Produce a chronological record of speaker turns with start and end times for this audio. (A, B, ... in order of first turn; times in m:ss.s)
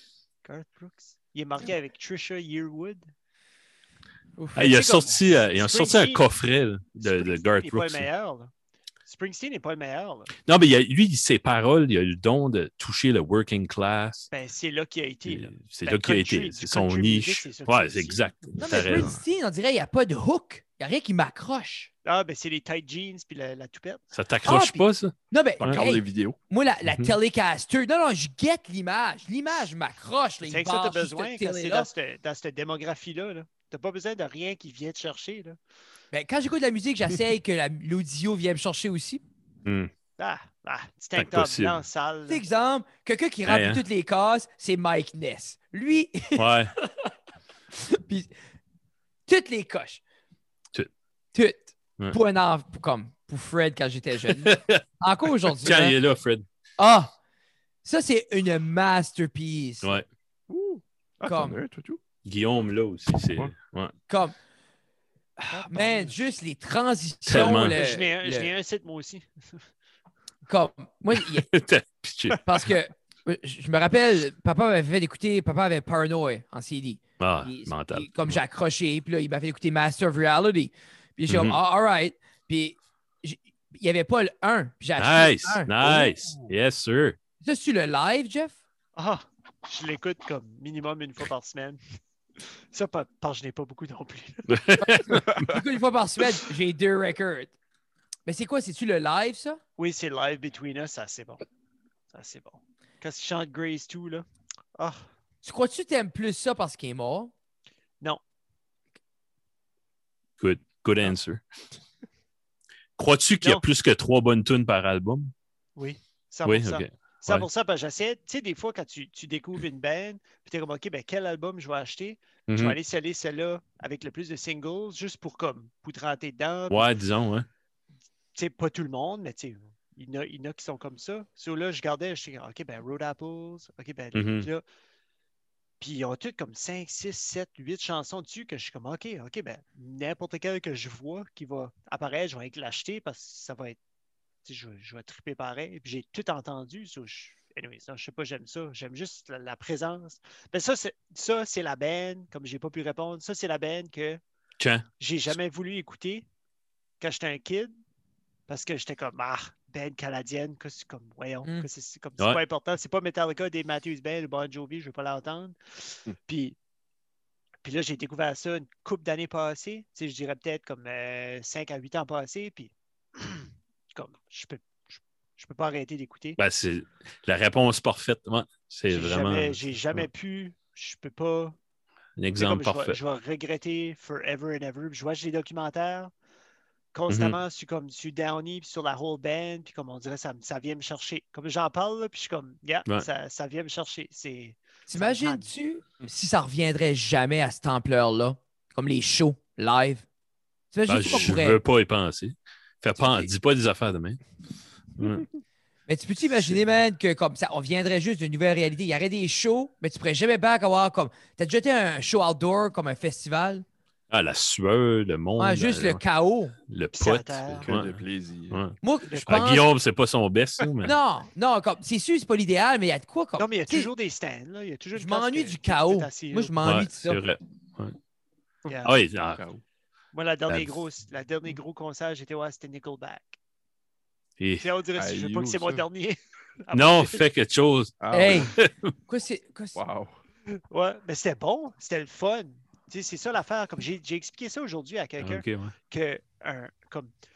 0:00.4-0:03.1 A
0:04.4-0:04.7 B
0:04.5-0:06.2 A
0:04.6-0:08.1 C
0:07.0-0:08.5 A
0:09.0-0:10.3 A
0:10.4-0:14.3 C
0:14.3-0:18.3 A
0:15.2-0:19.2 C
0:18.6-0:21.9 B
0:22.0-0:24.0 A
0:24.1-0:25.8 C
0:24.4-0:31.9 B
0:25.6-0:26.4 D
0:26.9-0:27.1 C
0:30.4-0:35.6 A
0:36.1-0:39.2 B
0:39.6-0:39.9 C
0:40.2-0:42.4 A
0:41.1-0:41.8 C
0:42.3-0:46.8 B
0:43.4-0:43.8 C
0:46.4-0:46.7 C
0:47.8-0:48.3 B
0:49.3-0:50.0 B
0:51.3-0:55.9 B
0:54.3-0:54.8 C
0:55.5-0:56.4 C
0:56.8-0:57.1 B
0:57.8-1:00.0 B
1:00.5-1:02.0 D
1:01.2-1:01.6 B
1:02.2-1:03.9 C
1:03.2-1:03.5 D
1:04.1-1:04.3 B
1:05.4-1:08.5 B
1:05.5-1:06.2 A
1:07.2-1:07.9 C
1:07.3-1:09.6 A
1:10.5-1:11.5 B
1:11.1-1:12.7 C
1:12.4-1:25.7 B
1:17.2-1:18.4 C
1:21.3-1:21.6 C
1:25.0-1:27.2 C
1:25.8-1:26.5 D
1:27.4-1:28.6 B
1:29.0-1:31.8 A
1:32.4-1:35.1 A
1:34.5-1:35.3 C
1:34.9-1:37.5 B
1:38.2-1:39.6 B
1:39.8-1:41.4 A
1:42.1-1:45.1 A
1:45.4-1:47.3 B
1:50.4-1:51.4 C
1:53.0-1:55.3 C
1:55.8-2:06.9 A
1:56.4-1:57.4 C
2:02.5-2:02.8 C
2:06.7-2:07.5 C
2:08.3-2:14.6 A
2:14.1-2:14.5 C
2:15.8-2:23.8 A
2:24.4-2:34.2 A
2:34.6-2:34.8 C
2:35.0-2:36.3 A
2:37.0-2:37.7 A
2:38.5-2:46.6 A
2:47.6-2:56.4 A
2:56.4-3:00.0 C
2:58.9-3:01.6 A
3:02.2-3:03.0 C
3:02.4-3:06.1 A
3:06.9-3:15.5 A
3:07.1-3:07.4 C
3:14.9-3:20.0 B
3:20.7-3:21.6 B
3:20.9-3:24.2 C
3:23.0-3:23.3 B
3:25.0-3:25.3 C
3:25.9-3:33.6 B
3:34.1-3:36.0 C
3:35.4-3:36.5 B
3:36.7-3:38.0 C
3:36.9-3:37.7 A
3:37.6-3:38.6 D
3:38.5-3:41.0 C
3:38.8-3:39.6 B
3:40.8-3:43.9 B
3:43.4-3:46.6 A
3:44.9-3:47.2 B
3:46.6-3:48.0 C
3:48.6-3:48.9 A
3:48.8-3:49.4 C
3:49.4-3:49.6 D
3:50.1-3:53.4 A
3:54.4-3:54.7 C
3:54.6-3:57.2 A
3:54.9-3:55.8 D
3:56.7-3:58.7 C
3:58.0-3:58.5 D
3:58.1-3:58.5 B
3:59.1-3:59.8 B
3:59.7-4:00.1 D
4:00.7-4:07.1 A
4:05.2-4:05.7 C